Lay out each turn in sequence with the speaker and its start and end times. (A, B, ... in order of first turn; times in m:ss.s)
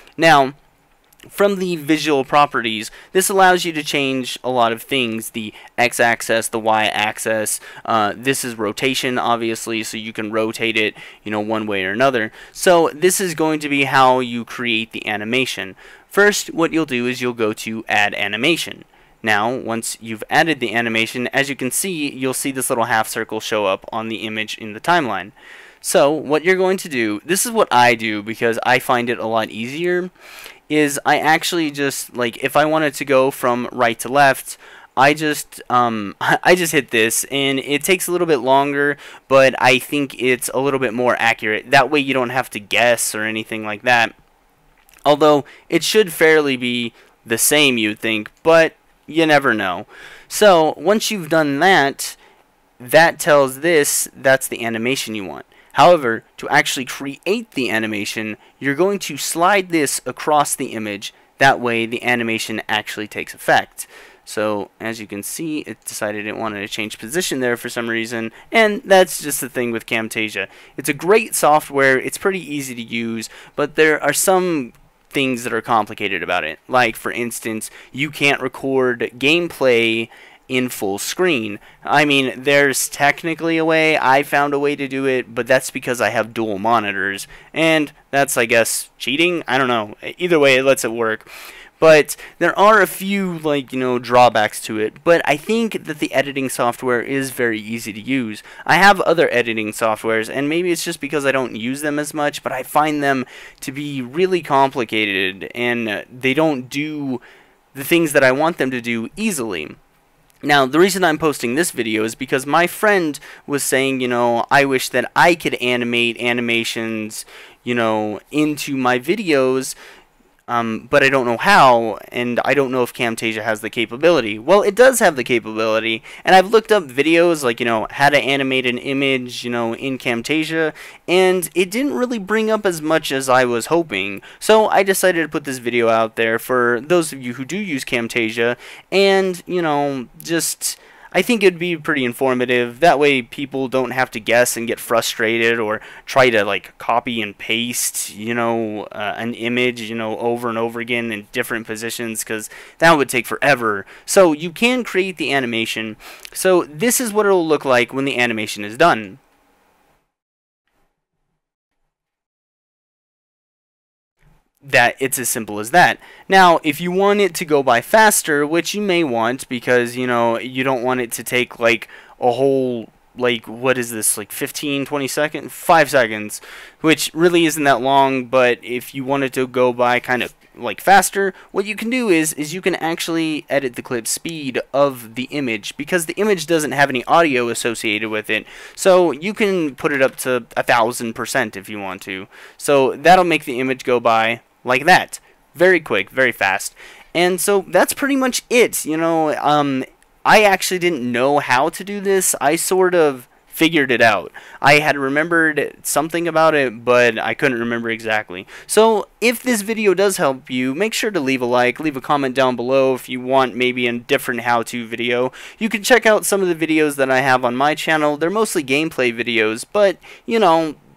0:00.2-0:00.5 A
0:01.3-0:30.1 A
0:30.7-0:44.1 A
0:45.0-0:52.2 A
0:52.8-1:31.3 A
1:31.8-1:47.2 A
1:47.7-1:49.8 A
1:50.4-1:59.8 A
2:00.5-2:39.2 A
2:44.6-3:40.8 A